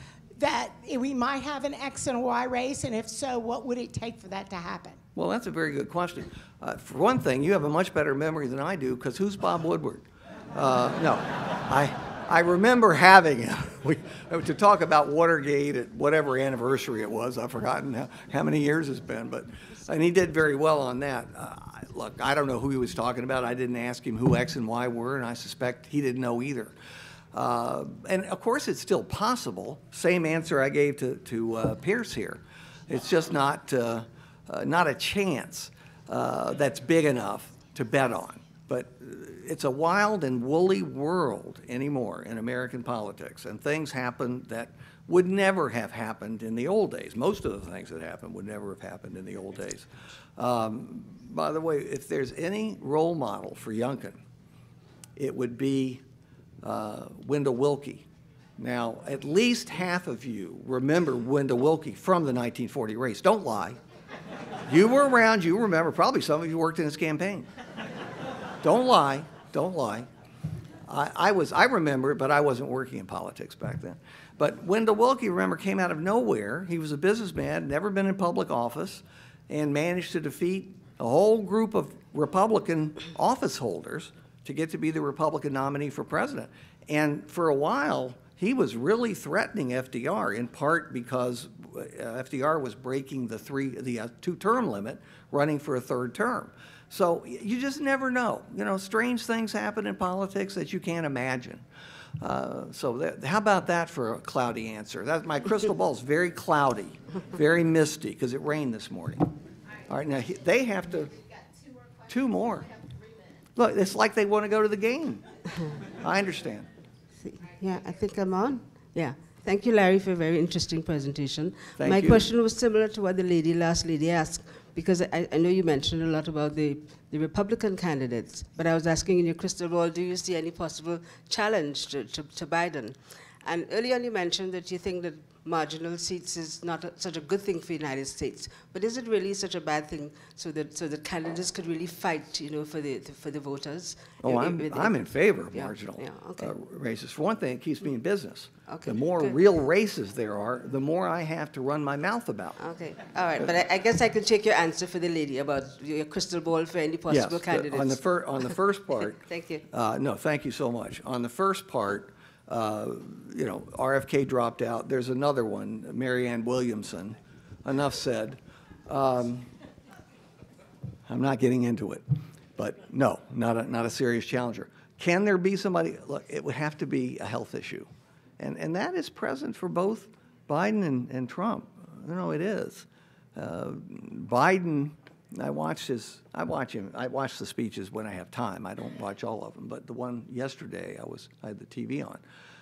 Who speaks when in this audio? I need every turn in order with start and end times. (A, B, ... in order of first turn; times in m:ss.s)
0:00.4-0:05.0 A
0:05.2-0:26.7 B
0:27.3-0:54.2 B
0:55.2-0:56.0 B
0:56.6-0:58.0 B
0:58.6-1:03.8 B
1:04.7-1:07.5 B
1:08.6-1:10.1 B
1:10.8-1:41.6 B
1:42.2-1:49.3 B
1:49.9-1:51.2 B
1:52.0-1:52.7 B
1:53.6-1:56.7 B
1:57.2-2:26.5 C
2:01.8-2:02.3 B
2:24.2-2:32.6 B
2:28.7-2:29.4 C
2:32.6-2:38.5 C
2:37.1-2:49.5 B
2:39.2-2:39.6 C
2:51.1-2:57.9 B
2:58.4-3:12.2 B